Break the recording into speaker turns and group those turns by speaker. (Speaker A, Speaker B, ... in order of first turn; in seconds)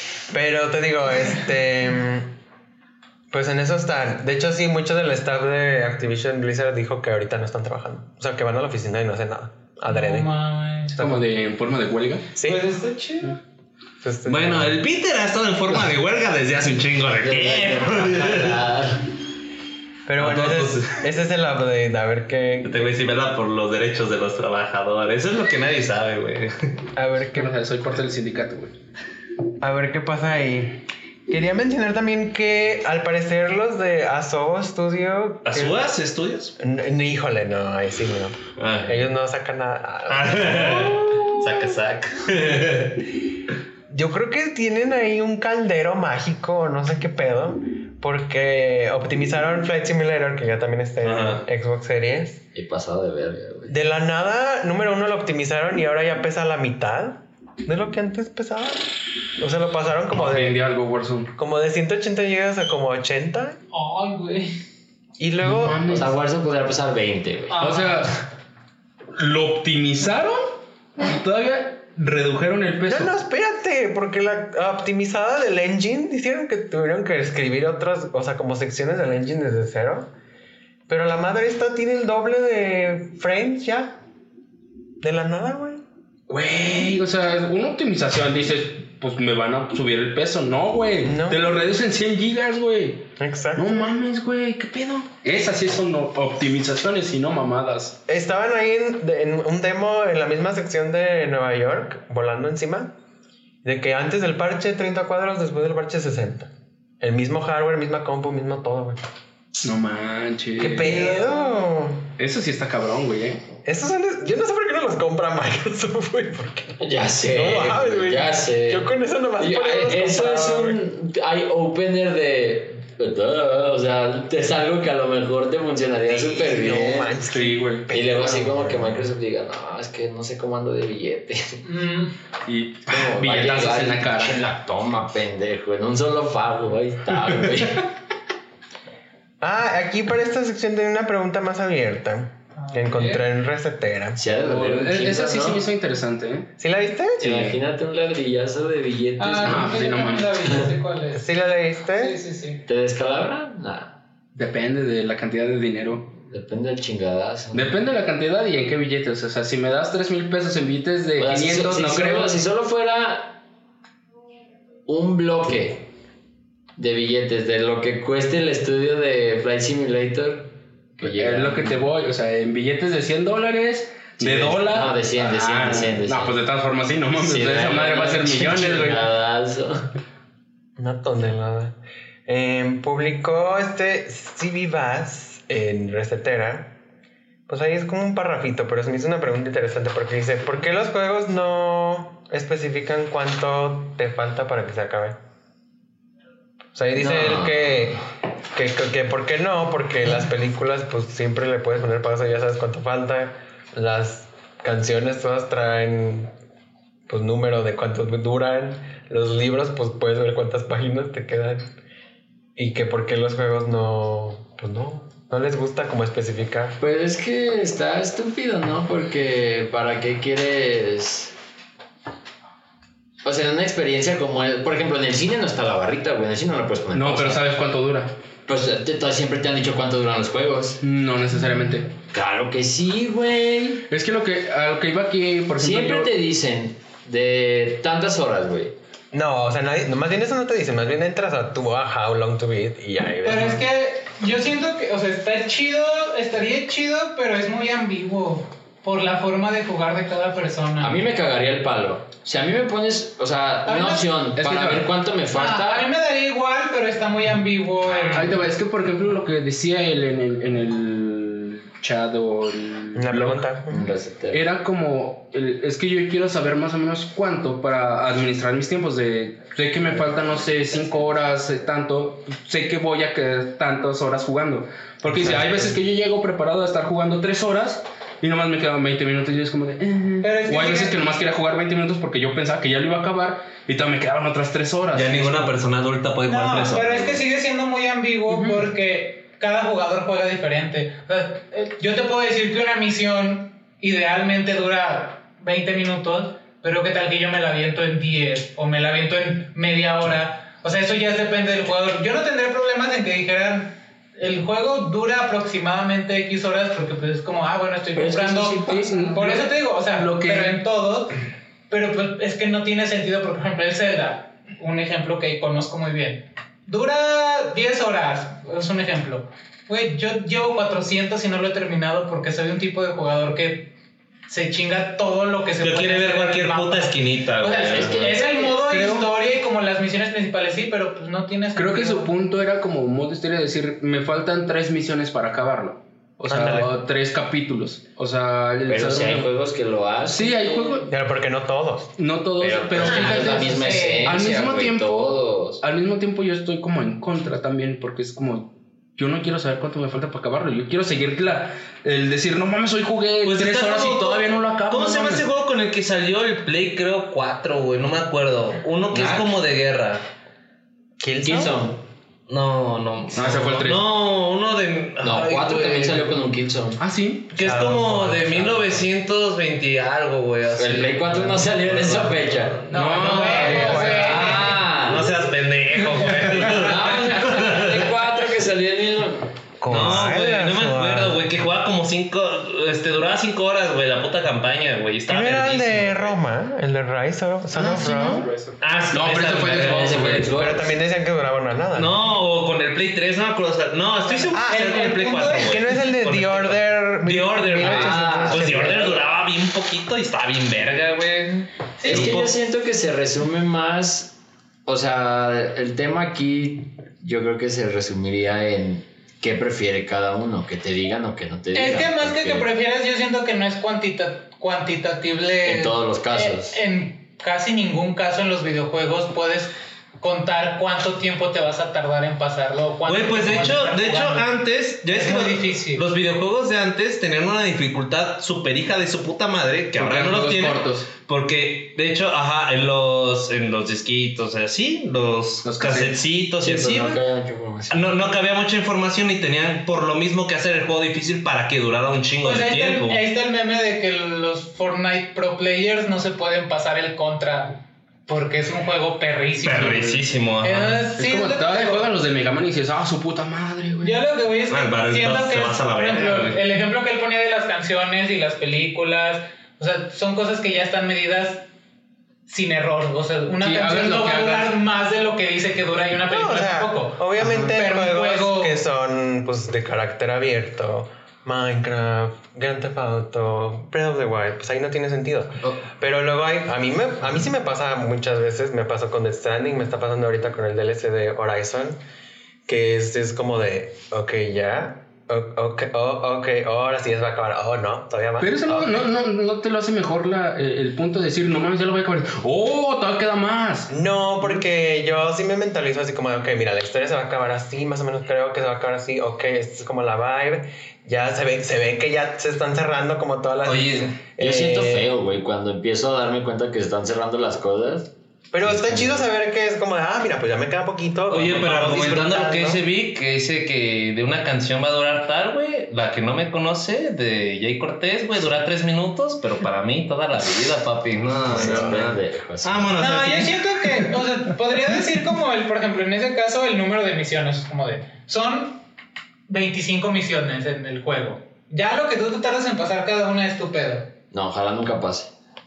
Speaker A: 0.3-2.3, 3.3-10.3, 11.0-11.2, 12.3-12.7, 14.0-14.8, 20.1-22.9, 26.9-27.5, 29.6-35.9, 36.6-41.3, 43.9-52.4, 53.7-58.8, 59.4-60.6, 61.3-63.6, 65.2-65.8, 72.8-80.1, 80.9-84.0, 85.0-85.8, 91.0-91.5, 93.2-93.8, 98.1-102.9, 103.6-109.0, 110.6-112.1, 113.6-120.8, 126.1-129.0, 139.4-144.2, 146.6-147.3, 151.1-152.2, 180.8-186.8, 187.5-195.2, 196.7-198.0, 198.5-206.3, 207.1-211.7, 212.6-216.8, 239.1-243.7, 262.9-263.9, 275.1-275.7, 336.3-336.7, 340.9-342.0, 361.0-361.6, 367.4-368.8, 379.6-381.2, 385.1-388.3, 390.3-392.0, 394.3-394.8, 395.4-398.7, 466.1-481.8, 482.5-488.8, 493.7-504.9, 508.3-512.6
Speaker B: 9.9-11.0, 63.7-64.5, 67.5-68.0, 131.6-132.2, 142.6-143.2, 149.2-151.2, 152.0-152.6, 243.2-251.0, 253.7-254.1, 255.3-258.5, 280.2-281.0, 286.2-311.1, 311.7-323.7, 324.3-332.1, 342.8-344.3, 372.7-374.6, 394.1-395.6, 401.8-402.1, 411.5-424.3, 424.9-425.8, 442.2-451.9, 453.8-461.4, 462.3-468.6, 522.8-528.6, 529.3-533.9
Speaker C: 10.9-12.3, 27.3-28.7, 60.1-61.3, 65.4-66.1, 67.6-68.1, 69.1-73.1, 86.3-98.0, 109.6-111.2, 112.2-113.4, 127.3-127.9, 132.4-134.5, 144.4-146.5, 147.2-147.6, 149.4-150.6, 154.3-156.1, 157.5-162.4, 171.0-179.1, 226.9-228.1, 230.8-231.9, 233.9-236.1, 254.3-254.9, 258.1-263.5, 264.3-285.5, 308.9-310.6, 331.6-339.3, 340.1-340.9, 342.0-344.9, 345.6-355.2, 363.1-363.9, 366.8-367.3, 372.7-374.6, 387.5-390.3, 435.4-436.0, 450.9-454.0, 463.4-464.5, 488.2-493.7
Speaker D: 14.2-18.6, 20.2-21.0, 22.6-26.8, 35.4-36.5, 38.6-39.1, 40.1-43.0, 51.0-51.5, 284.9-287.2, 325.6-328.2, 353.2-360.0, 362.3-366.1, 367.3-377.9, 379.7-386.2, 388.6-390.2, 391.7-402.3, 422.9-437.0, 437.7-443.0, 449.4-450.8, 454.5-456.4, 503.4-503.9, 511.1-523.9
Speaker E: 17.2-19.1, 52.5-53.7, 65.9-68.1, 116.8-127.1, 127.9-131.6, 132.9-137.9, 144.2-145.6, 147.2-149.7, 152.6-154.0, 156.1-157.7, 161.2-163.4, 164.9-165.9, 166.8-171.8, 174.2-176.4, 177.2-179.9, 197.0-197.6, 216.8-221.3, 223.2-227.4, 228.5-230.8, 232.1-233.8, 235.6-238.7, 250.8-255.9, 263.7-264.4, 307.9-309.3, 327.7-328.9, 338.6-340.9, 342.4-345.6, 358.9-359.3, 361.2-361.8, 365.0-366.8, 370.5-372.6, 373.2-375.1, 376.3-379.3, 389.5-390.7, 397.6-399.1, 401.8-412.5, 415.4-416.6, 429.8-430.9, 436.4-438.0, 504.2-507.9, 508.4-509.1, 521.2-522.8, 534.1-535.1